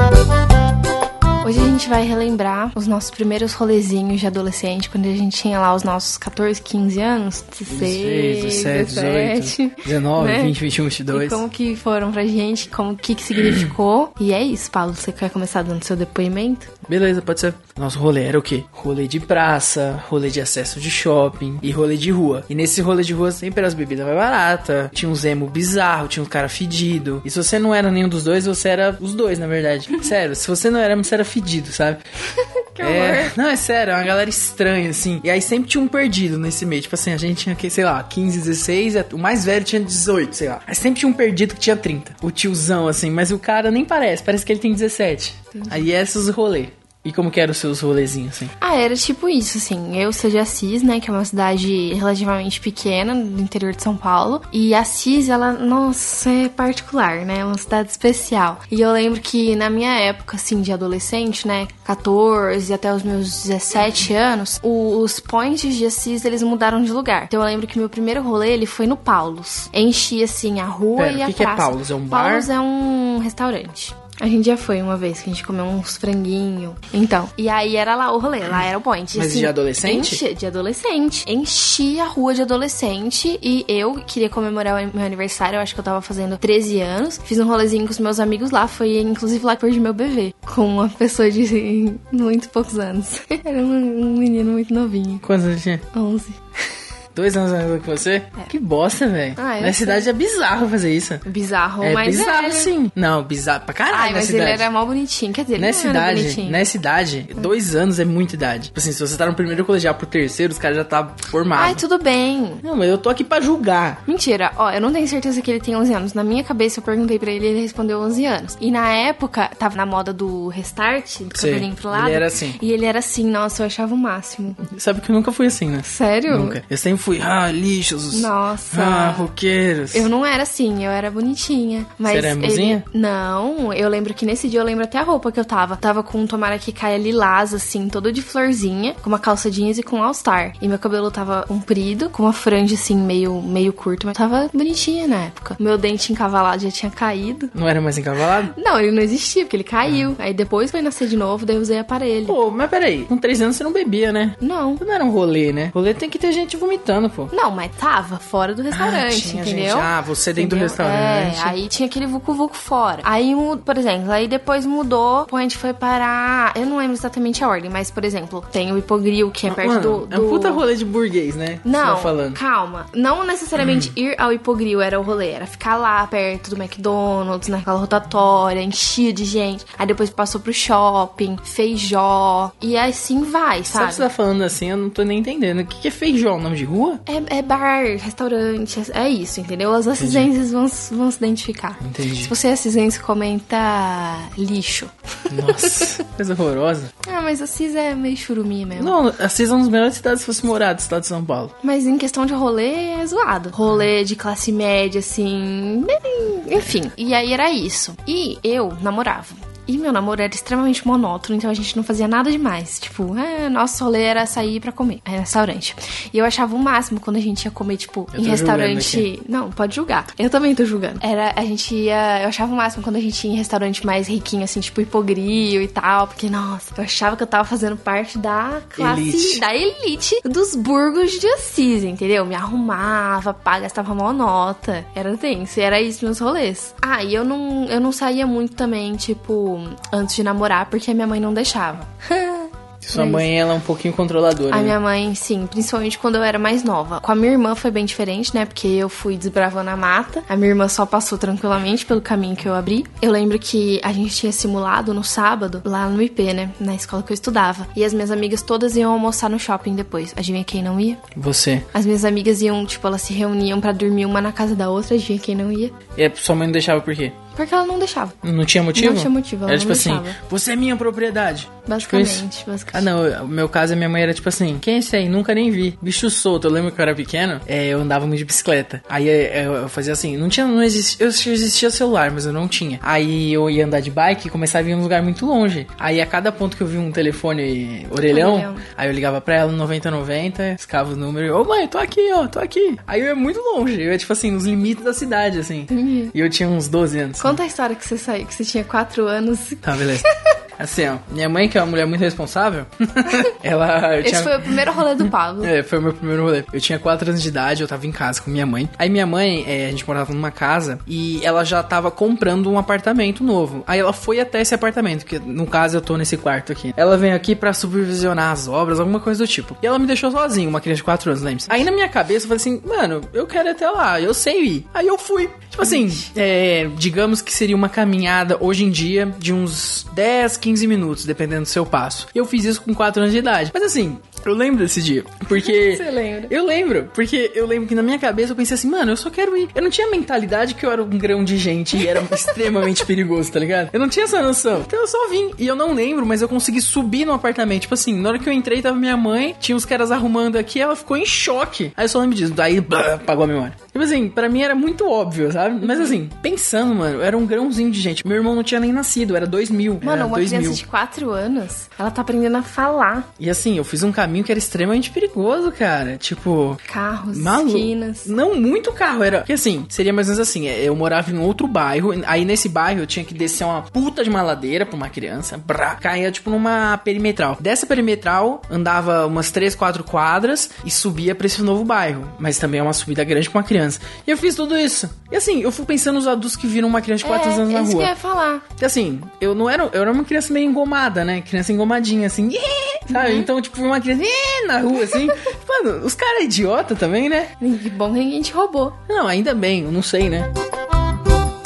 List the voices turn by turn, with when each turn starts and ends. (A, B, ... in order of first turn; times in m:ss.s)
0:01.4-0:10.6 A
0:07.7-0:11.4 B
0:11.1-0:16.7 A
0:13.4-0:13.7 B
0:16.9-0:32.0 B
0:32.4-0:33.3 A
0:32.8-0:48.5 B
0:45.6-0:45.9 A
0:48.6-1:35.2 A
1:11.0-1:12.5 B
1:19.1-1:20.2 B
1:35.2-1:35.9 B
1:35.9-1:36.4 A
1:37.2-1:41.2 B
1:39.4-1:40.1 A
1:41.2-1:42.7 A
1:41.8-1:44.7 B
1:43.9-1:46.7 A
1:45.6-1:51.8 B
1:51.5-1:52.6 A
1:52.6-1:54.0 B
1:54.1-2:04.6 A
2:01.3-2:02.6 B
2:04.6-2:10.1 B
2:05.8-2:06.6 A
2:08.1-2:09.3 A
2:09.9-2:27.5 A
2:12.1-2:12.8 B
2:27.6-2:28.5 B
2:28.5-2:32.4 A
2:32.3-2:37.3 B
2:34.4-2:34.8 A
2:37.3-2:50.6 A
2:38.7-2:41.6 B
2:49.5-2:52.4 B
2:51.6-3:04.1 A
2:53.6-2:53.9 B
3:03.7-3:07.0 B
3:07.1-3:16.0 A
3:10.0-3:10.3 B
3:11.8-3:12.3 B
3:15.3-3:16.9 B
3:17.0-3:19.0 A
3:18.8-3:21.5 B
3:21.6-4:03.3 A
3:38.1-3:39.1 B
3:48.8-3:49.4 B
4:02.8-4:04.8 B
4:04.5-4:21.0 A
4:21.2-4:21.7 B
4:21.7-4:25.8 A
4:26.0-4:27.2 B
4:27.4-4:28.2 A
4:28.2-4:57.4 B
4:28.7-4:30.2 A
4:31.7-4:32.9 A
4:48.0-4:48.6 A
4:55.7-4:56.1 A
4:57.2-5:00.0 A
4:59.6-5:00.1 B
5:00.6-6:00.6 B
5:04.0-5:05.5 A
5:25.6-5:26.0 A
5:35.3-5:36.3 A
5:41.8-5:42.7 A
5:59.8-6:03.1 A
6:03.2-6:06.6 B
6:06.6-6:08.1 A
6:07.1-6:27.9 B
6:27.0-6:28.4 A
6:28.6-6:37.3 B
6:32.9-6:33.3 A
6:37.4-6:38.8 A
6:38.9-6:40.3 B